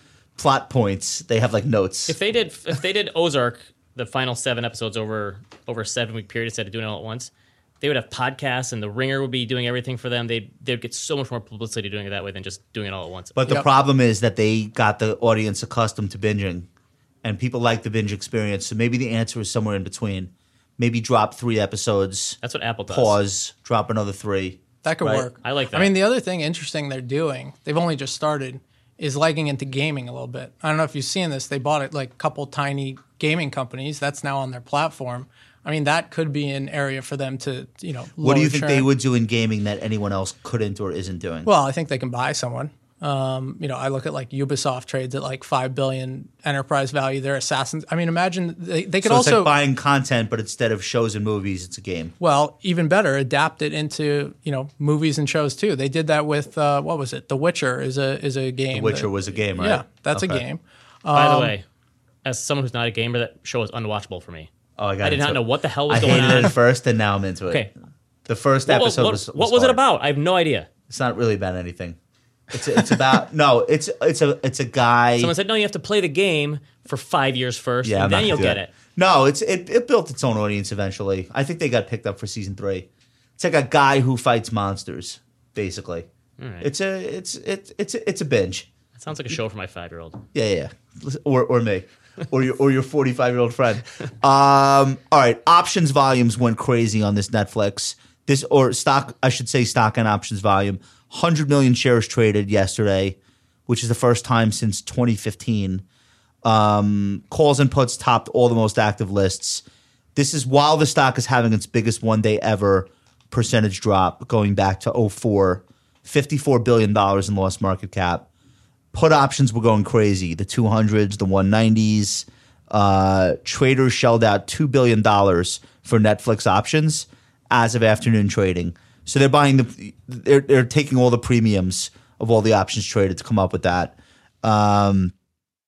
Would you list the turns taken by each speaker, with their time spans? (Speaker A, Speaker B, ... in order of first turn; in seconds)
Speaker A: 0.4-2.1, 13.3-16.7, 17.2-25.3, 38.2-41.5, 49.0-52.1, 58.7-60.4, 64.8-67.7, 68.3-69.8, 70.9-72.0, 72.5-75.3, 77.8-82.9, 83.4-86.1, 86.6-88.7, 90.3-105.8, 106.4-109.6, 110.1-118.3, 118.9-135.1
Speaker B: 2.1-13.4, 22.4-23.2, 25.4-25.9, 61.1-61.6, 62.2-66.6, 68.7-70.7, 75.2-78.7, 86.4-86.7, 88.9-90.2
Speaker C: 24.8-38.9, 41.4-49.5, 52.2-61.5